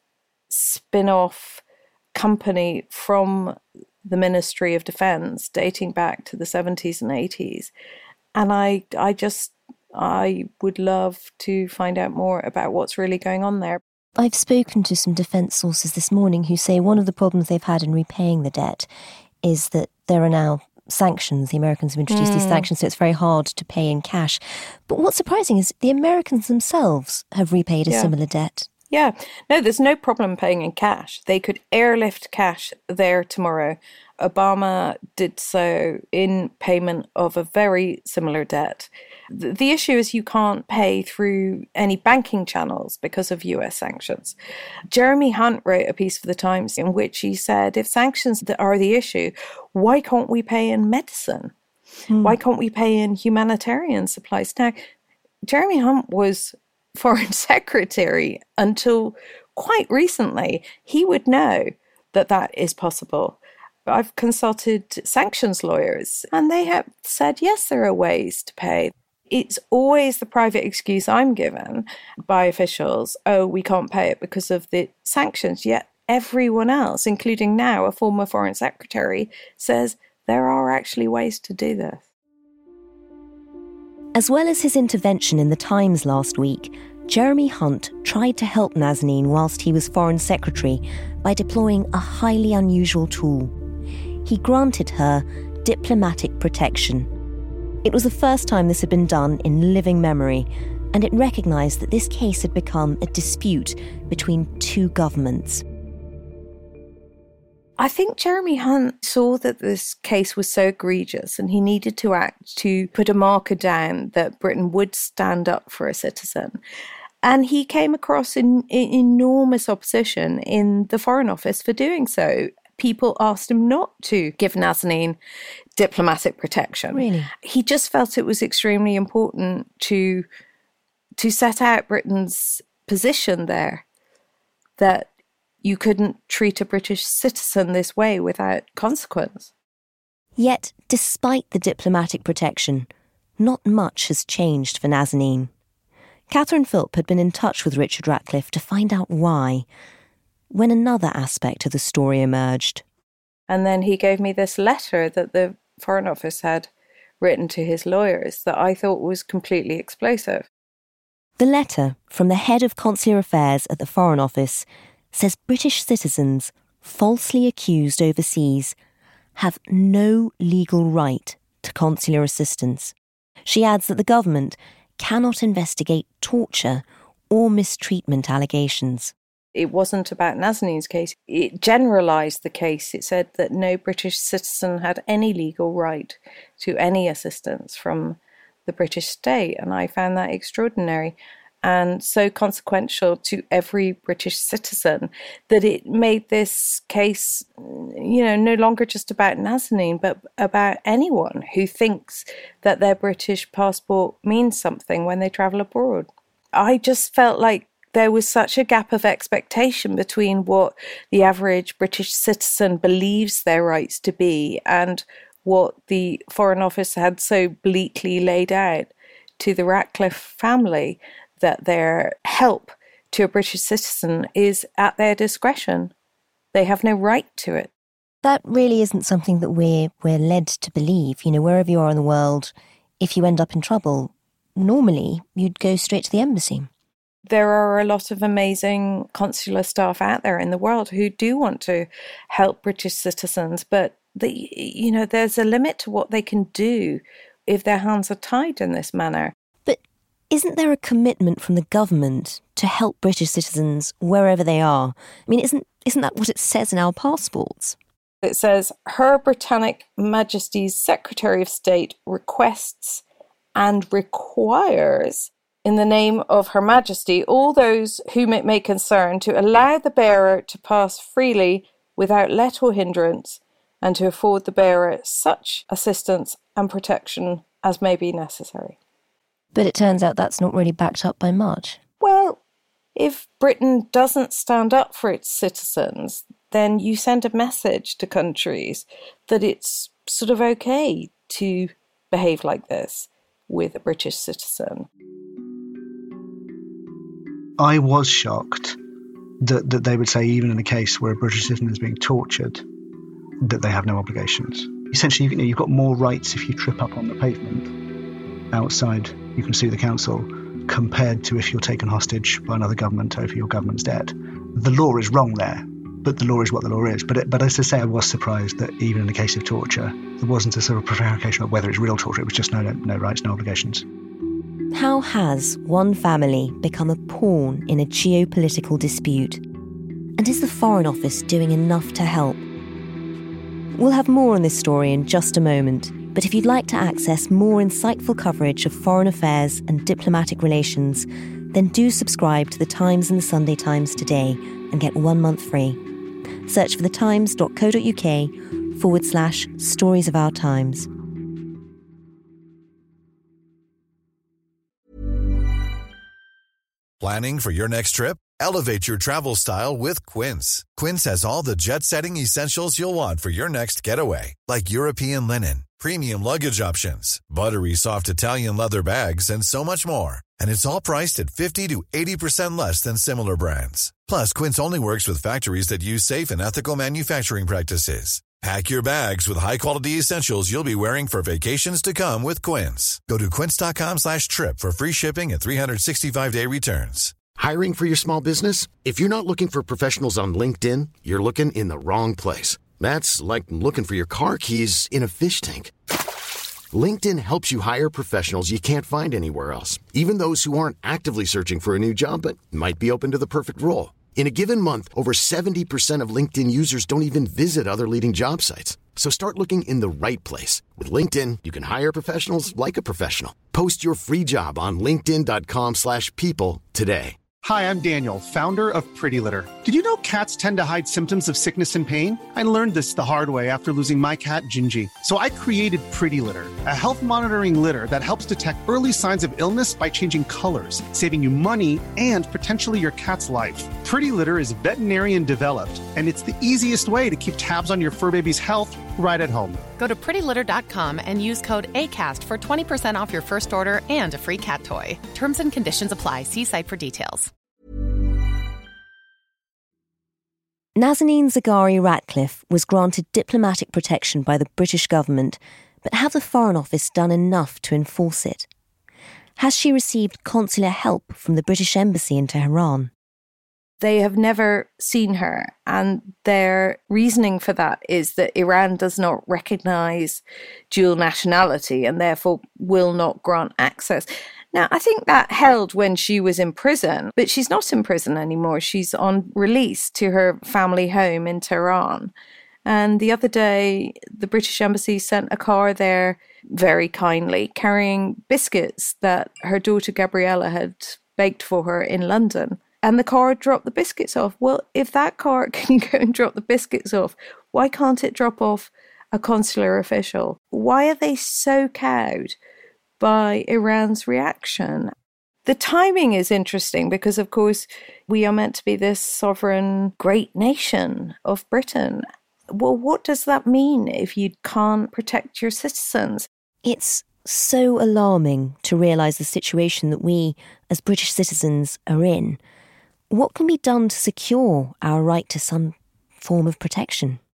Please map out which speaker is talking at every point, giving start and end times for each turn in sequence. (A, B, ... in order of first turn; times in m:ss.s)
0:00.5-0:01.6 A
0:02.1-0:07.7 A
0:08.3-0:13.8 A
0:14.2-0:18.9 B
0:19.4-0:28.7 B
0:22.1-0:22.7 A
0:28.9-0:44.4 A
0:44.9-0:51.5 A
0:52.1-0:52.4 B
0:52.2-0:54.8 A
0:55.4-1:22.0 A
1:24.1-1:33.5 B
1:34.2-1:37.1 B
1:37.8-1:45.6 B
1:47.8-1:56.6 A
1:57.2-2:05.2 A
2:05.8-2:10.2 A
2:06.9-2:07.3 B
2:11.2-2:13.8 A
2:14.8-2:15.1 A
2:15.6-2:19.5 A
2:20.4-2:25.5 B
2:26.3-2:29.6 B
2:30.5-2:32.8 B
2:33.5-2:36.7 A
2:37.2-2:40.5 A
2:41.4-2:48.8 B
2:49.4-2:52.9 B
2:53.4-2:59.1 B
2:59.5-3:45.9 A
3:46.5-3:47.7 A
3:48.2-3:56.7 B
3:57.2-4:09.3 A
4:10.3-4:17.8 B
4:18.2-4:23.0 A
4:23.5-4:38.8 A
4:39.5-4:41.8 B
4:42.0-4:42.4 A
4:43.0-4:54.9 A
4:57.6-4:58.8 C
4:59.4-5:02.6 C
5:03.4-5:07.7 C
5:08.5-5:23.8 C
5:24.7-5:29.4 B
5:30.2-5:32.4 B
5:33.8-5:45.8 B
5:46.5-5:50.9 B
5:57.0-6:27.1 D
6:27.4-6:35.7 E
6:36.7-6:57.2 E
6:57.4-7:19.6 F
7:19.8-7:27.3 G
7:30.8-7:38.5 B
7:39.4-7:42.9 B
7:43.8-8:02.1 A
8:02.6-8:22.4 A
8:23.0-8:24.9 A
8:25.4-8:36.3 A
8:36.6-8:42.4 B
8:43.1-8:47.2 B